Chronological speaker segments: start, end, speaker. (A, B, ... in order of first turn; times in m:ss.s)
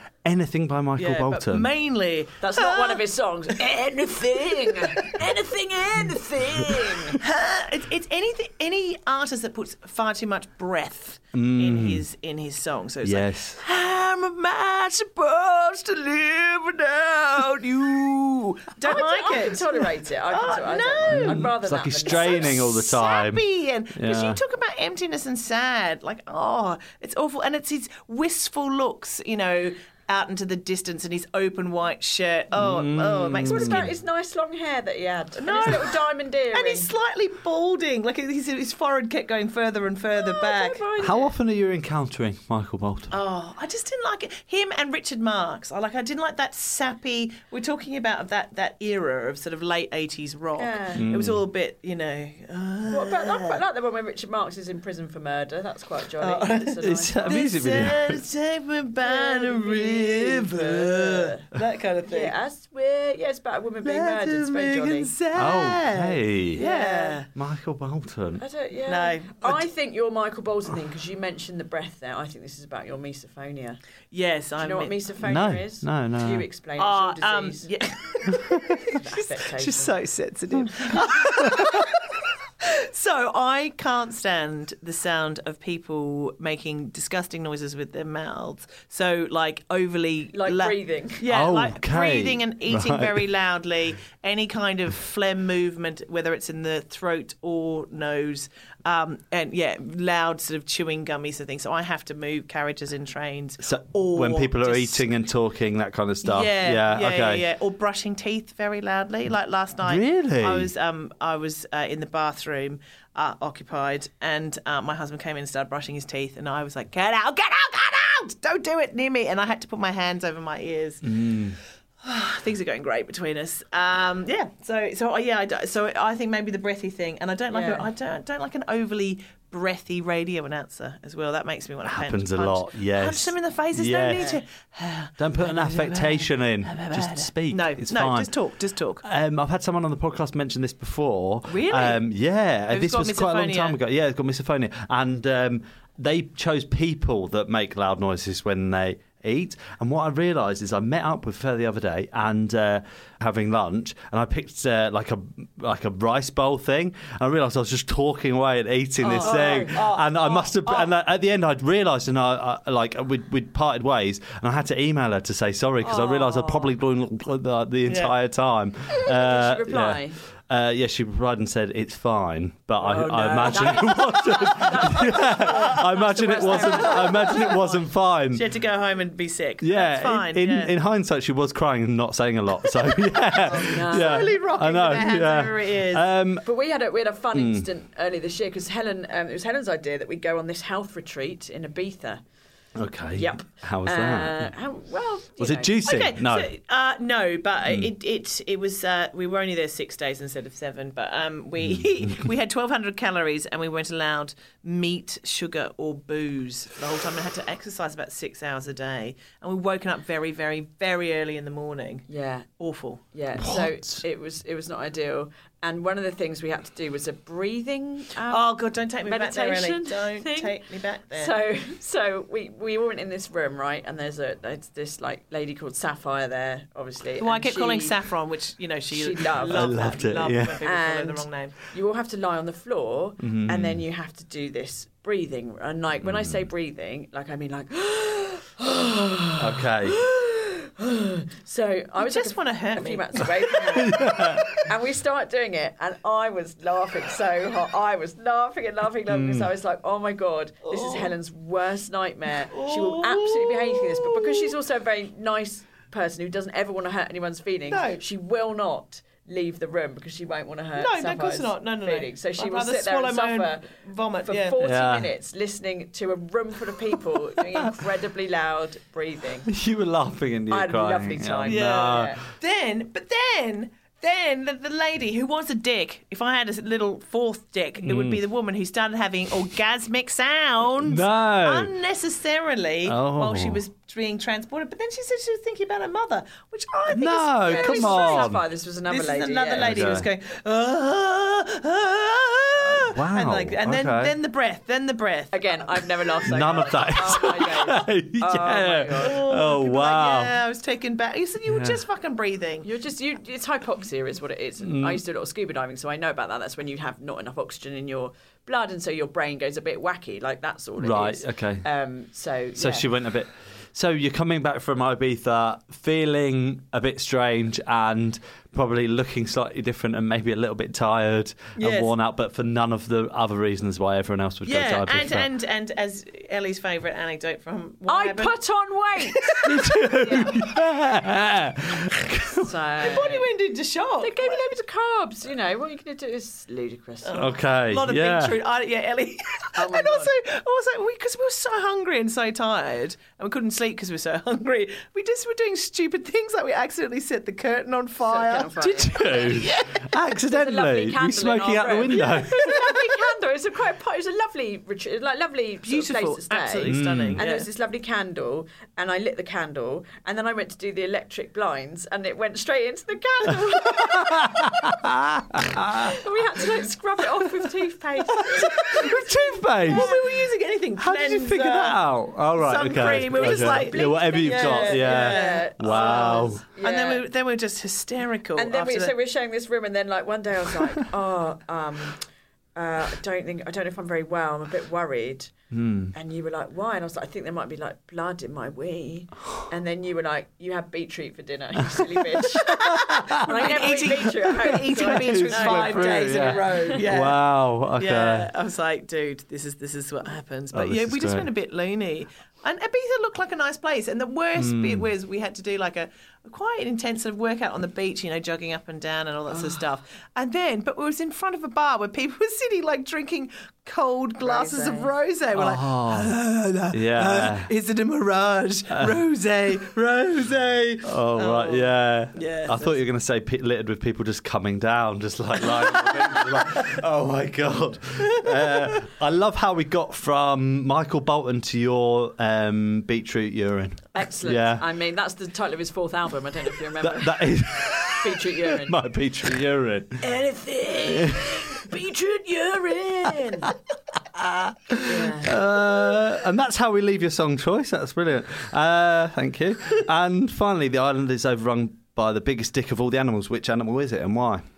0:00.2-0:01.7 A
0:01.0-0:03.0 B
0:02.4-0:07.2 C
0:04.6-0:05.2 B
0:07.2-0:21.5 B
0:11.3-0:12.0 A
0:13.0-0:13.6 A
0:18.8-0:22.6 C
0:21.1-0:24.4 A
0:22.0-0:33.9 B
0:32.5-0:33.9 A
0:33.4-0:36.9 C
0:35.4-0:40.9 B
0:40.1-0:41.3 C
0:41.0-0:43.1 A
0:43.1-0:53.6 B
0:50.6-0:51.0 C
0:51.0-0:51.4 A
0:52.9-0:57.5 C
0:56.2-1:02.3 B
0:56.8-0:58.2 A
0:59.0-1:01.4 C
1:00.2-1:00.8 A
1:02.0-1:05.1 C
1:03.8-1:07.3 B
1:05.3-1:06.6 A
1:06.6-1:07.2 C
1:07.3-1:08.4 A
1:08.4-1:13.8 C
1:08.9-1:09.7 B
1:14.1-1:15.0 B
1:14.6-1:17.7 C
1:15.2-1:16.4 A
1:16.8-1:22.1 B
1:18.9-1:19.9 C
1:22.9-1:45.2 B
1:30.3-1:31.2 C
1:31.3-1:33.3 A
1:43.6-1:47.4 A
1:46.2-2:01.1 B
1:49.8-1:50.7 A
2:01.0-2:01.6 A
2:02.0-2:19.0 B
2:07.5-2:07.9 C
2:11.8-2:14.3 A
2:14.1-2:14.4 C
2:15.2-2:18.3 A
2:19.0-2:58.5 A
2:21.5-2:22.0 B
2:22.7-2:23.8 B
2:39.0-2:39.9 C
2:39.0-2:40.9 B
2:45.8-2:46.7 C
2:47.8-2:48.1 B
2:49.0-2:50.2 C
2:52.8-2:57.9 C
2:55.1-2:57.6 B
2:58.3-3:00.7 B
2:59.6-3:06.4 A
3:03.4-3:04.4 C
3:03.4-3:06.1 B
3:06.4-3:12.2 C
3:07.3-3:07.7 A
3:12.8-3:14.5 A
3:13.2-3:15.7 C
3:15.4-3:16.5 A
3:15.8-3:32.1 B
3:21.6-3:22.3 A
3:32.1-3:32.5 C
3:32.6-3:33.0 B
3:33.1-3:40.5 C
3:33.4-3:34.0 A
3:38.2-3:41.4 B
3:41.1-3:48.0 C
3:47.2-3:51.5 B
3:48.9-4:23.7 C
3:49.4-3:50.6 A
3:53.2-3:53.8 A
3:56.0-3:56.4 A
3:59.4-4:00.0 A
4:02.0-4:03.3 B
4:03.8-4:04.6 A
4:09.1-4:09.5 A
4:10.7-4:11.1 B
4:12.5-4:14.5 B
4:17.7-4:18.0 B
4:20.8-4:24.6 B
4:24.2-4:29.5 C
4:24.6-4:25.1 A
4:29.5-4:32.2 A
4:30.5-4:32.2 C
4:31.4-4:48.4 B
4:37.8-4:38.2 A
4:40.8-4:41.7 A
4:42.8-4:43.6 A
4:46.9-4:48.4 A
4:47.4-4:49.9 C
4:48.9-4:56.8 B
4:49.6-4:50.1 A
4:52.8-4:54.1 A
4:55.3-4:59.2 C
4:56.3-5:00.4 A
4:59.0-5:02.7 B
5:01.5-5:01.8 A
5:02.6-5:12.8 C
5:04.6-5:05.0 A
5:10.8-5:11.6 A
5:12.6-5:25.3 A
5:21.6-5:21.9 B
5:24.4-5:28.4 B
5:27.9-5:30.4 C
5:29.0-5:29.8 B
5:29.4-5:32.5 A
5:32.4-5:33.3 C
5:32.8-5:34.5 B
5:34.0-5:37.3 C
5:37.0-5:48.6 B
5:37.1-5:38.4 A
5:39.6-5:40.1 C
5:48.0-6:04.3 C
5:48.6-5:52.7 A
5:49.2-5:49.8 B
5:55.7-5:57.5 B
5:56.7-5:57.2 A
6:03.6-6:06.0 A
6:05.8-6:10.0 C
6:08.2-6:10.0 A
6:08.5-6:11.8 B
6:10.8-6:16.4 A
6:12.3-6:18.9 B
6:13.1-6:17.0 C
6:18.3-6:22.0 C
6:22.6-6:25.3 C
6:25.5-6:25.9 A
6:25.9-6:36.8 C
6:32.4-6:38.3 A
6:33.1-7:02.8 B
6:40.5-6:41.3 A
6:44.4-6:44.9 A
6:54.2-6:54.9 C
6:55.3-6:56.2 A
6:56.7-6:57.5 A
6:58.7-6:59.0 A
7:00.8-7:14.6 A
7:05.4-7:06.7 B
7:08.1-7:08.8 B
7:13.9-7:17.3 C
7:16.8-7:20.0 A
7:17.8-7:18.7 C
7:20.0-7:23.5 C
7:20.8-7:21.6 A
7:24.2-7:34.4 A
7:24.8-7:25.4 C